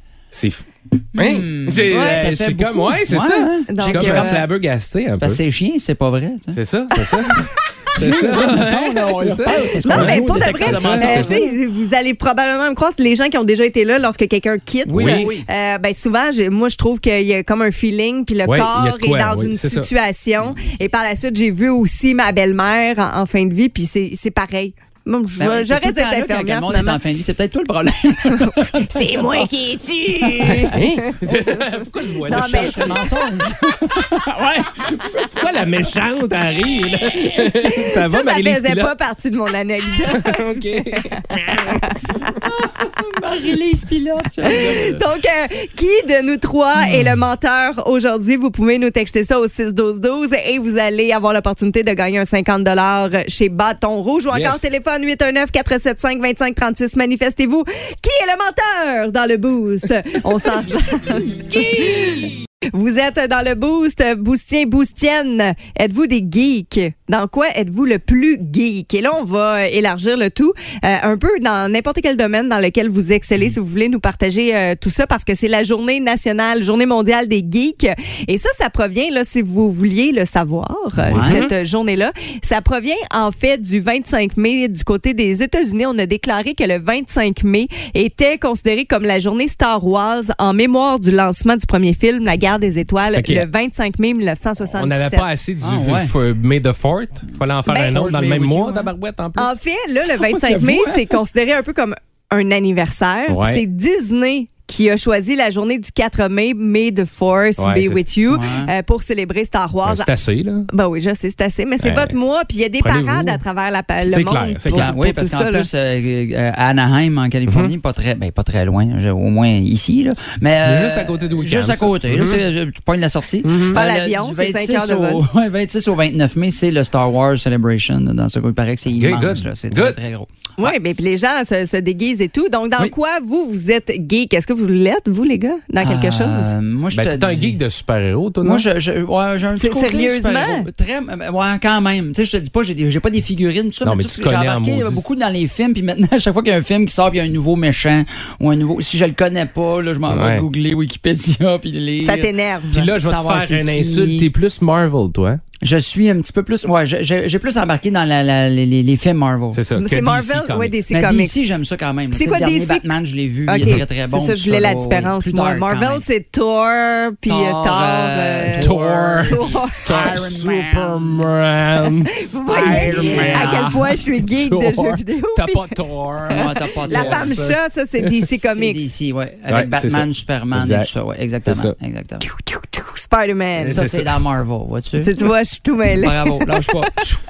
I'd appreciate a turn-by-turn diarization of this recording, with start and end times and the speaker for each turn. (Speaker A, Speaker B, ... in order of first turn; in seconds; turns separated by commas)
Speaker A: 0.3-5.4, Speaker B: 1.1-4.5, Speaker C: 1.9-2.2, Speaker C: 3.7-4.4, Speaker B: 5.2-6.6, Speaker A: 6.5-11.4, Speaker C: 7.0-7.4, Speaker B: 7.9-11.6, Speaker C: 9.8-27.0, Speaker B: 14.8-15.5, Speaker A: 14.9-15.3, Speaker A: 18.5-19.9, Speaker B: 25.4-29.5, Speaker C: 28.4-31.4, Speaker B: 30.2-30.8, Speaker A: 30.7-32.9, Speaker C: 32.3-33.0, Speaker B: 32.3-35.5, Speaker A: 34.8-38.9, Speaker B: 37.1-37.5, Speaker C: 37.6-42.0, Speaker A: 40.1-41.9, Speaker B: 42.5-45.0, Speaker C: 44.4-95.3, Speaker B: 46.8-47.1, Speaker A: 54.3-54.6, Speaker B: 81.0-81.4, Speaker A: 81.2-81.5, Speaker A: 93.1-93.5, Speaker A: 94.7-99.5, Speaker B: 95.6-96.1, Speaker C: 97.7-98.0, Speaker B: 97.9-98.9, Speaker C: 99.4-110.1, Speaker B: 100.2-101.2, Speaker A: 103.3-103.6, Speaker A: 107.6-108.0, Speaker B: 108.3-108.7, Speaker A: 109.8-110.7, Speaker C: 110.7-115.7, Speaker A: 111.8-112.2, Speaker A: 112.8-113.4, Speaker A: 114.0-114.9, Speaker B: 114.7-130.3, Speaker A: 117.5-117.7, Speaker A: 120.6-122.5, Speaker A: 123.4-123.8, Speaker C: 123.7-125.2, Speaker A: 128.9-130.0, Speaker C: 130.6-136.5, Speaker B: 135.8-137.6, Speaker A: 136.9-138.7, Speaker B: 138.4-154.3, Speaker C: 139.6-140.7, Speaker A: 143.8-145.0, Speaker A: 150.1-150.5, Speaker C: 152.0-152.8, Speaker A: 152.7-155.4, Speaker B: 155.6-159.6, Speaker A: 159.5-160.8, Speaker C: 159.8-161.3, Speaker B: 160.9-166.1, Speaker C: 162.1-163.0, Speaker C: 163.5-168.7, Speaker B: 167.3-171.3, Speaker A: 168.6-178.1, Speaker C: 169.2-170.1, Speaker C: 172.2-175.8, Speaker B: 172.5-173.7, Speaker B: 176.3-177.6, Speaker C: 176.3-178.8, Speaker B: 178.4-182.3, Speaker A: 179.5-180.9, Speaker A: 181.4-181.8, Speaker C: 182.2-183.9, Speaker B: 183.6-185.1, Speaker A: 183.6-184.2, Speaker C: 185.0-187.1, Speaker B: 185.9-187.1